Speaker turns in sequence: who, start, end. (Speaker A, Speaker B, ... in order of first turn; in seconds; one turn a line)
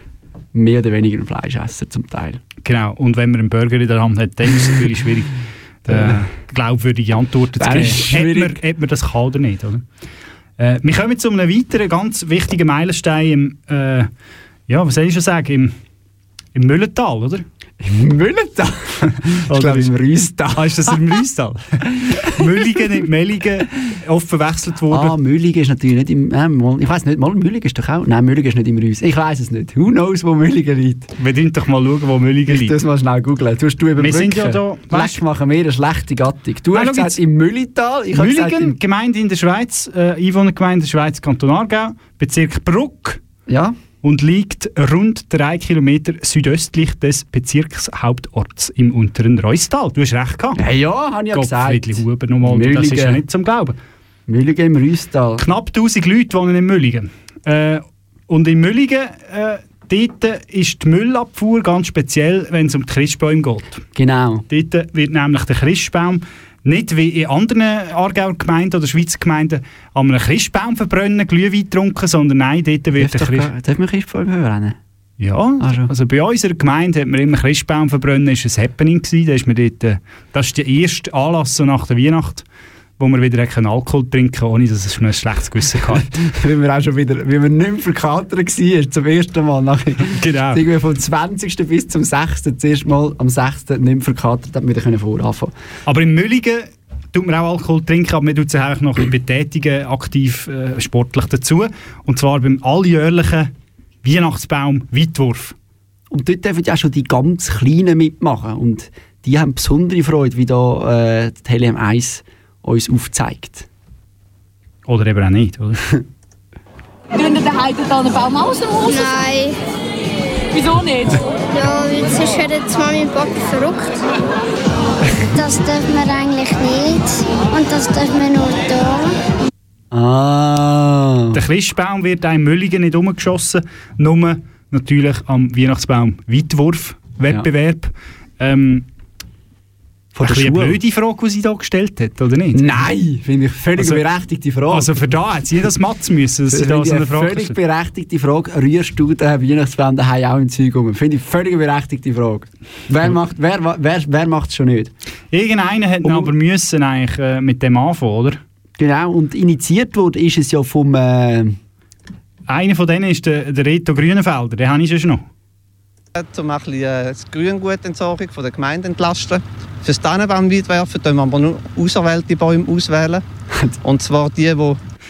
Speaker A: 0.5-2.4
Speaker B: 2.6-9.8
Speaker A: 5.9-6.2
Speaker A: 7.6-8.6
Speaker B: 10.6-14.1
Speaker B: 14.7-15.7
Speaker B: 16.5-17.4
Speaker A: 17.8-21.0
Speaker B: 19.5-19.9
Speaker B: 20.5-25.1
Speaker A: 22.1-22.9
Speaker A: 24.9-31.1
Speaker B: 31.2-32.8
Speaker A: 32.5-38.8
Speaker B: 34.0-35.2
Speaker B: 36.7-37.2
Speaker B: 38.1-43.2
Speaker A: 43.5-43.7
Speaker B: 44.0-50.6
Speaker A: 50.5-53.2
Speaker B: 51.3-53.8
Speaker A: 54.3-55.4
Speaker B: 55.4-63.8
Speaker A: 64.0-64.4
Speaker B: 64.5-73.5
Speaker A: 73.0-74.8
Speaker B: 75.2-82.4
Speaker A: 75.6-75.9
Speaker B: 83.0-86.1
Speaker A: 85.9-95.5
Speaker B: 90.2-90.6
Speaker B: 95.9-103.5
Speaker B: 104.0-105.5
Speaker A: 106.1-113.7
Speaker B: 114.9-115.8
Speaker C: 117.1-119.3
Speaker D: 118.8-119.5
Speaker C: 120.5-121.2
Speaker D: 121.5-123.9
Speaker D: 125.3-129.1
Speaker A: 129.9-131.4
Speaker B: 131.3-138.8
Speaker A: 140.1-140.8
Speaker B: 140.2-142.8
Speaker A: 142.5-144.9
Speaker B: 143.8-144.0
Speaker B: 144.7-147.5
Speaker A: 146.5-154.9
Speaker B: 155.3-158.4
Speaker A: 156.0-156.3
Speaker A: 158.8-161.6
Speaker B: 162.5-165.2
Speaker E: 166.2-173.2
Speaker E: 173.8-174.8